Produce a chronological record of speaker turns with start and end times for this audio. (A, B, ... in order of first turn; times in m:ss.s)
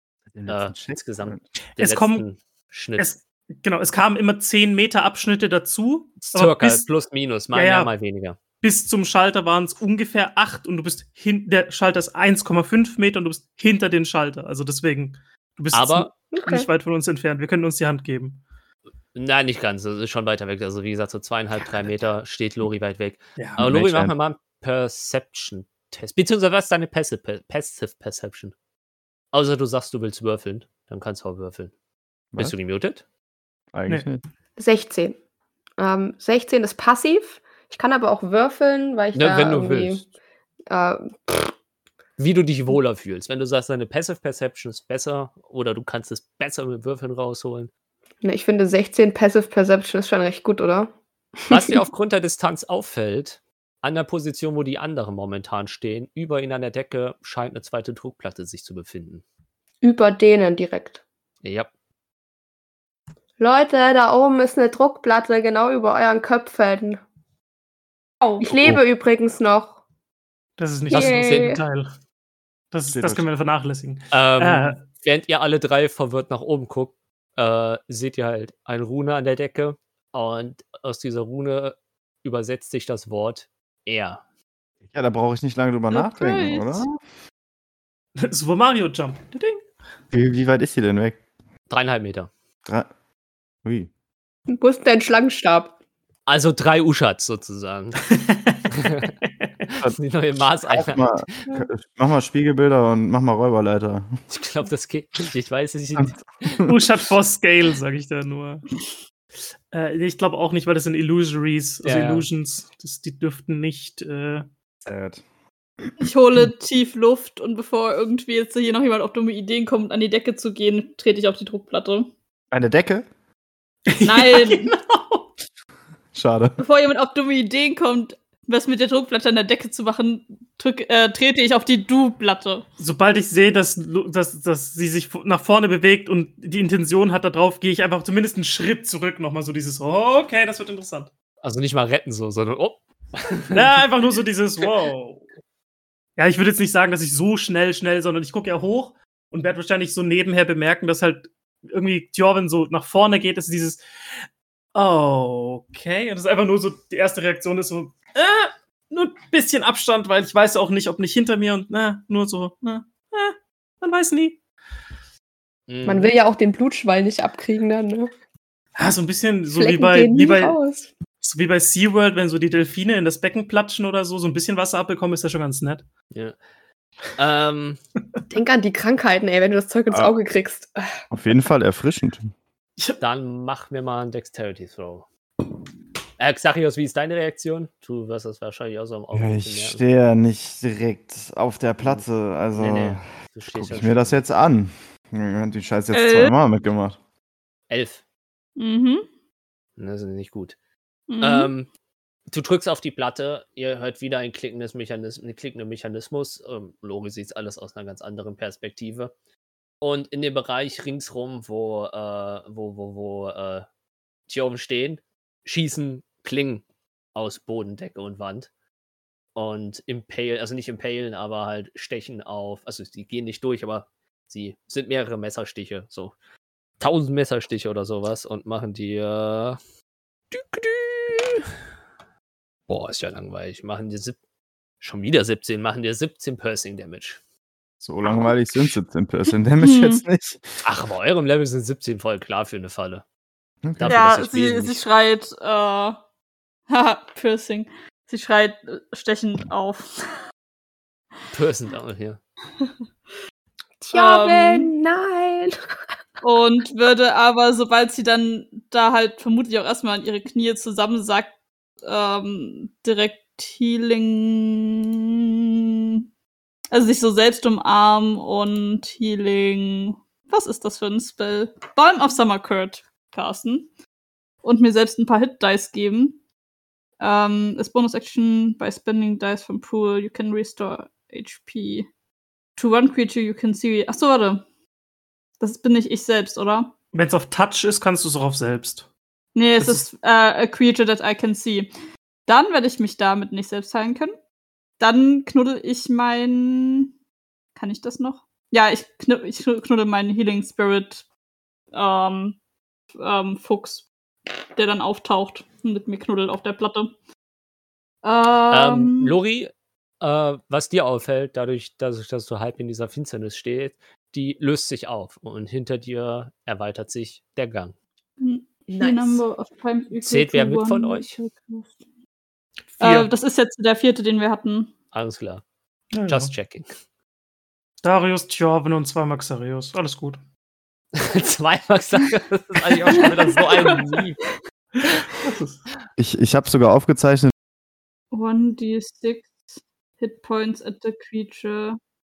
0:00.3-0:01.4 A
0:00.5-0:03.1 B
0:01.8-0:02.2 C
0:03.0-0:06.9 C
0:06.2-0:08.4 B
0:07.5-0:07.9 C
0:08.6-0:18.4 C
0:15.7-0:16.1 B
0:16.3-0:16.7 D
0:19.1-0:28.5 B
0:23.4-0:23.6 C
0:23.6-0:24.1 A
0:29.3-0:31.7 B
0:32.4-0:33.0 B
0:33.7-0:34.2 A
0:34.6-0:35.2 D
0:35.8-0:40.1 D
0:39.1-0:40.0 B
0:40.7-0:41.6 D
0:42.2-0:47.7 B
0:48.2-0:50.9 D
0:51.5-0:59.2 B
0:51.5-0:51.8 D
0:59.8-1:01.0 D
1:01.4-1:01.7 B
1:03.4-1:07.0 D
1:08.4-1:09.8 D
1:10.6-1:11.9 C
1:10.9-1:11.6 D
1:10.9-1:11.5 B
1:12.7-1:14.8 C
1:12.9-1:13.2 A
1:14.1-1:24.2 B
1:24.9-1:26.9 A
1:25.9-1:26.9 E
1:28.2-1:29.6 C
1:30.1-1:31.2 A
1:31.7-1:32.3 B
1:33.6-1:33.9 A
1:34.5-1:35.7 D
1:36.3-1:38.0 B
1:38.1-1:39.5 C
1:38.7-1:39.1 B
1:39.7-1:41.5 B
1:40.7-1:44.1 A
1:44.3-1:46.6 B
1:46.7-1:48.6 C
1:49.7-1:54.4 C
1:51.8-1:52.3 B
1:54.8-1:55.2 A
1:56.0-2:02.1 E
2:02.5-2:03.1 A
2:03.9-2:05.3 C
2:04.0-2:04.7 E
2:06.1-2:06.6 A
2:06.6-2:12.7 E
2:12.8-2:21.1 C
2:21.4-2:23.8 B
2:23.5-2:25.3 C
2:26.2-2:33.8 C
2:34.7-2:44.4 C
2:45.7-2:46.1 B
2:45.8-2:48.1 D
2:48.8-2:50.6 C
2:49.5-2:50.9 D
2:51.2-2:55.9 C
2:56.1-2:56.4 B
2:57.1-2:57.8 B
2:58.3-3:01.0 D
3:01.1-3:02.3 A
3:03.0-3:05.0 B
3:06.2-3:09.8 B
3:09.1-3:17.0 A
3:11.8-3:14.2 B
3:15.9-3:16.3 E
3:17.7-3:18.0 B
3:18.6-3:19.0 E
3:19.8-3:20.6 B
3:21.1-3:21.5 E
3:21.2-3:21.7 B
3:22.3-3:29.1 B
3:29.8-3:33.6 B
3:34.3-3:38.5 B
3:39.4-3:46.1 B
3:46.8-3:49.6 B
3:50.3-3:51.5 B
3:52.7-3:54.2 B
3:54.8-3:57.2 B
3:57.8-4:00.5 A
3:59.6-4:00.0 E
4:00.6-4:03.0 B
4:03.6-4:04.0 A
4:03.8-4:04.8 B
4:03.9-4:06.0 E
4:06.7-4:10.2 E
4:11.3-4:12.2 B
4:13.8-4:15.6 D
4:13.9-4:14.7 E
4:16.2-4:25.0 E
4:26.7-4:33.7 E
4:34.4-4:36.2 E
4:37.0-4:41.9 E
4:42.6-4:44.4 E
4:45.4-4:46.7 E
4:46.9-4:48.9 C
4:49.3-4:51.7 E
4:49.6-4:49.9 C
4:52.3-4:54.1 E
4:54.8-4:56.9 E
4:57.6-5:01.0 E
5:01.7-5:02.4 E
5:03.0-5:03.9 E
5:04.5-5:06.9 E
5:08.0-5:09.1 E
5:08.5-5:17.7 B
5:18.2-5:21.8 E
5:18.7-5:19.2 D
5:20.0-5:21.1 B
5:22.8-5:23.1 C
5:22.8-5:24.7 E
5:24.9-5:25.4 B
5:25.9-5:26.3 C
5:26.0-5:26.8 B
5:27.8-5:30.2 C
5:31.0-5:34.2 B
5:33.0-5:33.8 E
5:35.2-5:35.6 C
5:36.0-5:37.3 A
5:38.1-5:41.8 E